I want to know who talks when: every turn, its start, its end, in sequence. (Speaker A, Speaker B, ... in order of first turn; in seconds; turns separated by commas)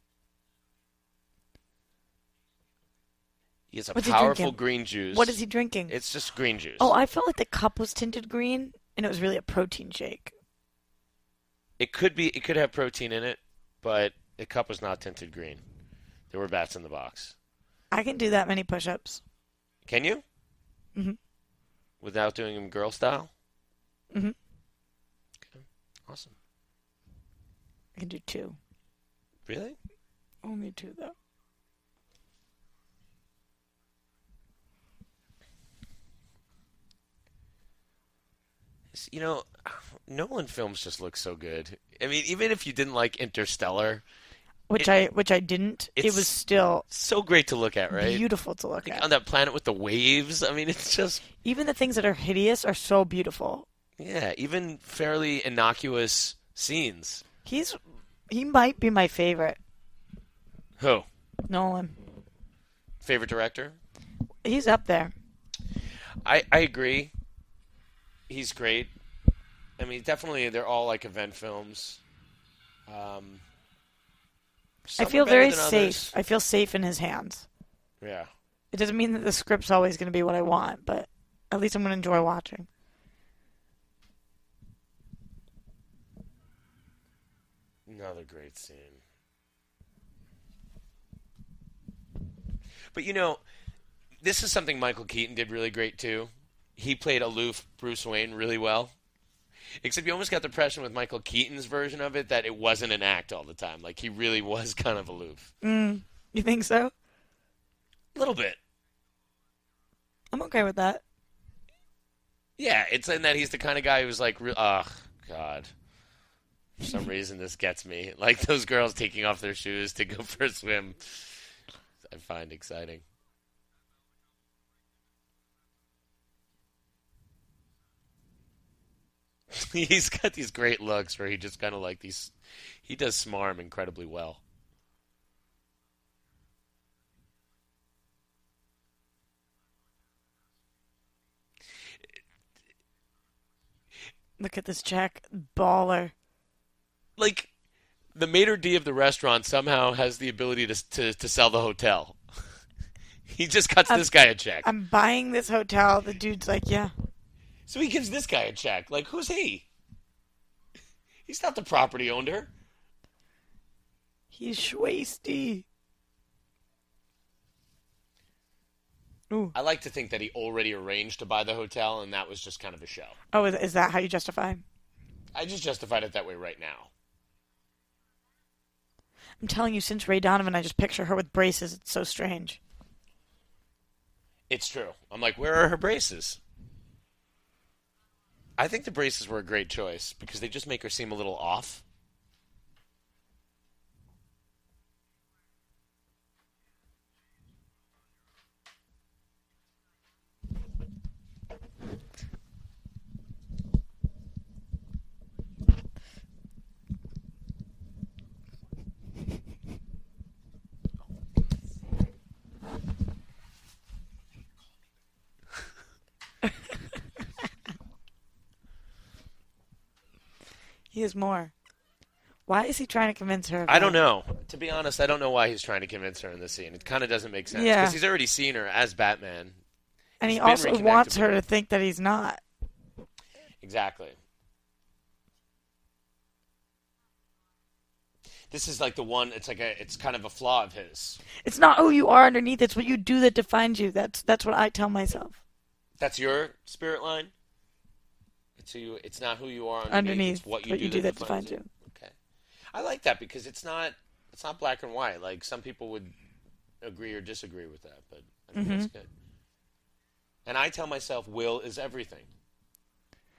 Speaker A: 3.7-5.4, Speaker B: 4.0-4.6, Speaker B: 5.1-5.9, Speaker A: 5.9-6.9, Speaker B: 6.8-10.3, Speaker A: 11.8-15.6, Speaker A: 16.3-17.4, Speaker B: 17.9-19.2, Speaker A: 19.9-20.2, Speaker A: 22.0-23.3, Speaker A: 25.5-26.4, Speaker B: 28.0-28.6, Speaker A: 29.5-29.8, Speaker B: 30.4-31.1, Speaker A: 38.9-44.0, Speaker B: 44.7-46.9, Speaker A: 46.0-46.4, Speaker A: 46.9-48.2, Speaker B: 47.9-49.1, Speaker A: 48.8-51.2, Speaker B: 51.4-53.7, Speaker A: 54.0-57.2, Speaker B: 57.5-59.6, Speaker A: 60.8-61.1, Speaker B: 61.5-62.0, Speaker A: 63.0-63.8, Speaker B: 64.4-65.1, Speaker A: 66.2-67.1, Speaker A: 68.3-68.9, Speaker A: 69.8-72.0, Speaker A: 72.9-73.4, Speaker A: 74.9-76.1, Speaker B: 75.0-77.5, Speaker A: 78.0-78.3, Speaker B: 78.7-82.7, Speaker A: 87.9-89.0, Speaker A: 92.9-93.4, Speaker A: 94.2-98.9, Speaker A: 99.8-105.5, Speaker B: 105.6-106.9, Speaker A: 108.2-108.6, Speaker B: 110.3-111.0, Speaker A: 112.6-115.7, Speaker A: 116.8-121.2, Speaker A: 122.1-123.0, Speaker A: 129.5-132.3, Speaker A: 132.8-134.4, Speaker B: 144.4-146.1, Speaker A: 147.2-147.5, Speaker A: 148.2-152.2, Speaker A: 153.3-154.7, Speaker B: 154.6-156.9, Speaker A: 157.7-159.7, Speaker A: 161.3-162.5, Speaker B: 164.3-165.7, Speaker B: 169.3-169.6, Speaker A: 169.6-173.2, Speaker B: 173.3-174.6, Speaker A: 175.3-176.9, Speaker B: 179.4-182.6, Speaker A: 184.5-186.4, Speaker A: 188.6-191.8, Speaker B: 220.9-221.5, Speaker B: 222.5-224.0, Speaker A: 223.7-229.6, Speaker B: 227.5-228.0, Speaker B: 230.2-232.4, Speaker A: 230.2-231.4, Speaker A: 233.6-234.2, Speaker A: 238.5-241.2, Speaker B: 241.4-245.4, Speaker A: 246.0-247.3, Speaker A: 248.6-252.1, Speaker B: 249.9-251.7, Speaker A: 252.7-256.1, Speaker A: 256.8-259.1, Speaker B: 258.6-258.9, Speaker A: 260.5-262.3